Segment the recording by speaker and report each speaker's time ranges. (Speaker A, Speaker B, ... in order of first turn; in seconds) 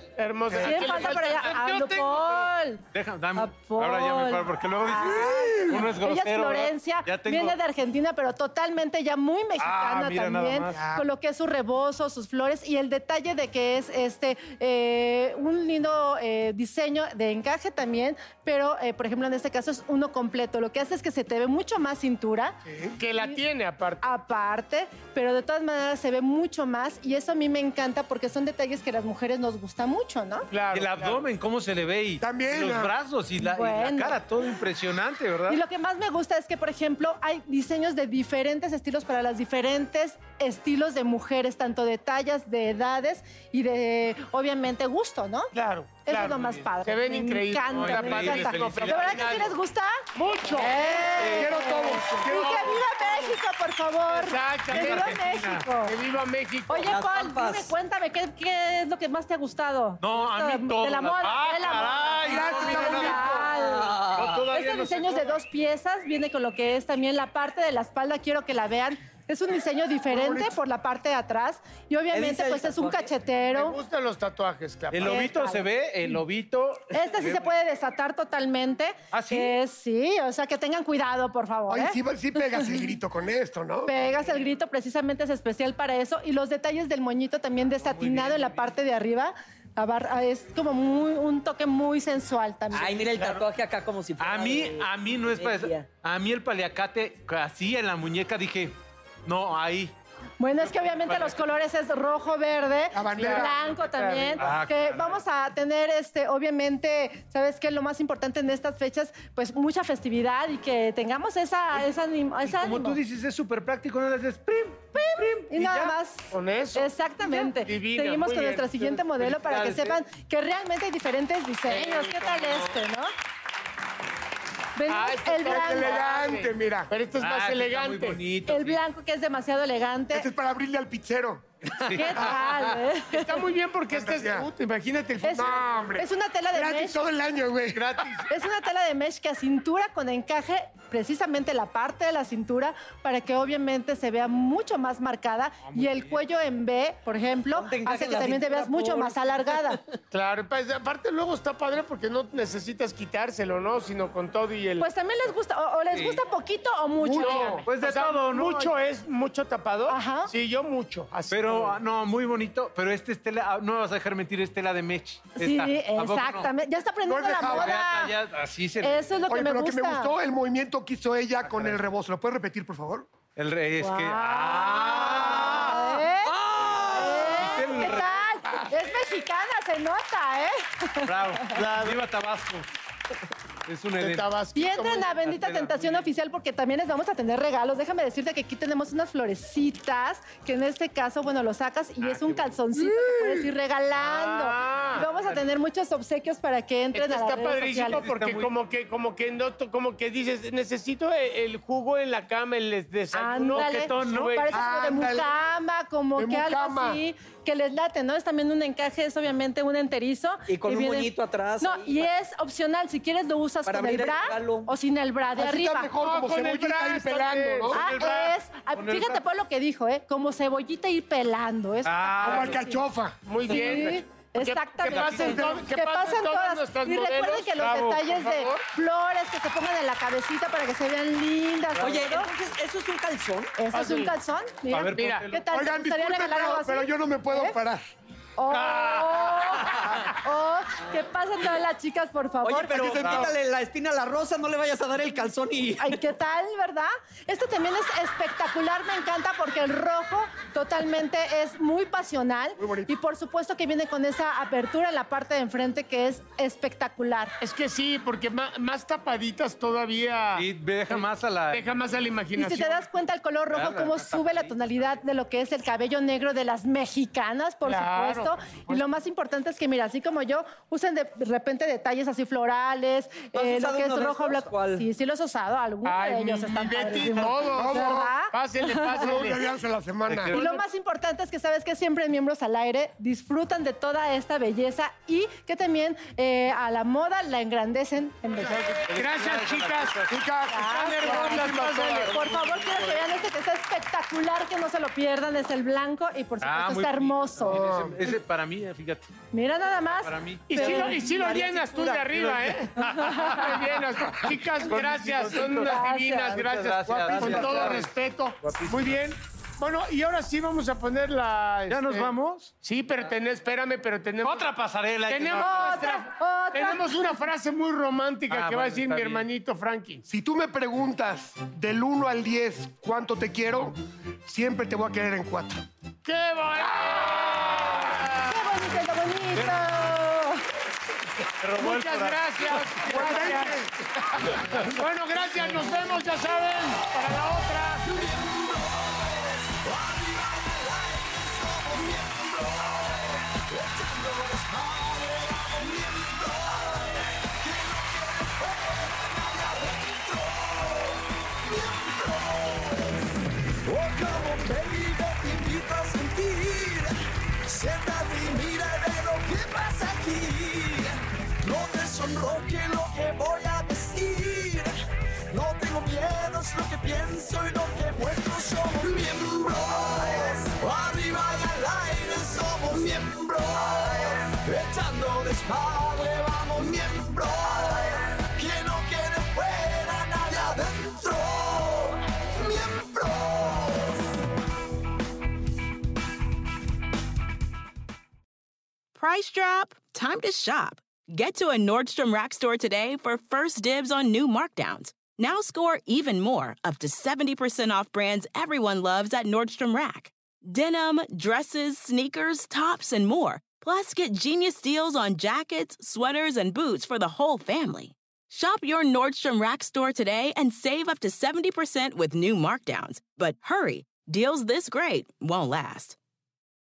Speaker A: 0.2-2.2, 23.0-24.1, 30.5-31.3, 45.5-49.6, 50.1-51.5, 52.3-52.8, 54.1-55.2, 55.8-56.9, 73.5-75.3, 116.3-119.0, 121.7-122.8, 124.9-128.2, 133.1-135.6, 137.7-138.3, 150.1-154.9, 157.2-161.8, 181.6-182.0, 184.0-185.1, 194.1-195.1, 196.9-204.6, 215.9-217.7, 223.2-228.7, 233.7-234.1, 234.9-235.3, 257.4-262.8, 267.7-268.8, 275.8-279.4, 280.4-280.6, 288.5-290.0, 290.6-292.2, 300.5-302.8, 303.3-314.5, 315.1-320.0, 326.1-328.4, 331.6-333.6, 334.6-337.8
Speaker B: 0.5-1.0, 5.0-5.8, 10.7-11.1, 22.7-23.0, 32.2-32.9, 51.2-53.3, 62.2-63.5, 70.1-70.6, 81.7-83.9, 102.9-103.5, 125.4-126.9, 130.1-131.5, 133.9-134.5, 135.2-137.9, 157.0-157.7, 167.1-167.7, 169.3-173.1, 204.5-205.4, 206.2-207.0, 215.3-217.8, 222.2-223.3, 235.5-237.8, 242.7-243.3, 252.6-252.9, 277.5-278.1, 279.0-280.4, 290.1-292.1, 297.4-298.0, 306.9-307.8, 320.1-325.6, 332.9-333.7
Speaker C: 0.5-2.8, 3.4-22.6, 24.0-30.5, 33.4-34.2, 35.5-56.0, 56.7-73.8, 75.0-76.2, 76.9-82.8, 83.9-93.2, 100.4-113.0, 115.0-123.1, 124.8-126.2, 128.5-130.3, 131.9-133.5, 135.2-137.0, 138.3-149.8, 154.8-157.7, 159.9-160.3, 165.3-168.2, 168.8-170.1, 173.8-181.6, 184.6-198.1, 203.1-215.9, 217.7-222.8, 223.4-232.3, 233.6-237.6, 238.4-243.1, 245.8-257.3, 262.4-279.1, 280.3-288.6, 290.5-297.9, 299.3-301.8, 302.8-303.6, 305.6-306.5, 307.2-307.7, 315.3-317.2, 328.2-330.4
Speaker D: 1.3-2.4, 2.9-7.6, 9.6-10.9, 30.7-35.6, 46.2-46.7, 47.6-49.5, 54.7-55.7, 60.0-63.4, 64.0-65.4, 74.9-77.5, 79.1-79.6, 87.8-88.7, 94.2-99.9, 100.7-101.4, 103.4-105.2, 112.5-116.0, 118.8-120.0, 127.2-128.8, 131.8-132.8, 145.7-146.2, 155.9-156.2, 157.6-158.7, 161.3-166.5, 167.4-169.1, 171.4-171.8, 173.4-178.6, 181.0-182.7, 183.7-184.3, 185.0-186.1, 192.0-192.5, 194.0-195.4, 197.8-198.5, 203.5-204.4, 217.7-219.2, 221.8-222.6, 224.8-225.6, 227.6-228.1, 234.7-235.4, 238.5-240.1, 243.0-243.3, 260.4-261.7, 263.5-264.6, 280.1-280.5, 288.8-290.2, 292.1-293.1, 296.4-299.1, 300.0-303.7, 304.5-307.9, 308.4-309.0, 311.7-312.5, 314.2-315.7, 318.3-319.3, 329.3-329.9, 331.4-333.3
Speaker E: 56.8-57.7, 63.5-64.5, 72.1-73.1, 92.7-95.9, 147.6-149.8, 210.5-212.1, 213.7-214.7, 231.8-233.5, 242.4-246.0, 273.3-274.9
Speaker F: 337.8-356.9, 357.4-364.7, 365.3-384.1
Speaker G: 388.9-416.0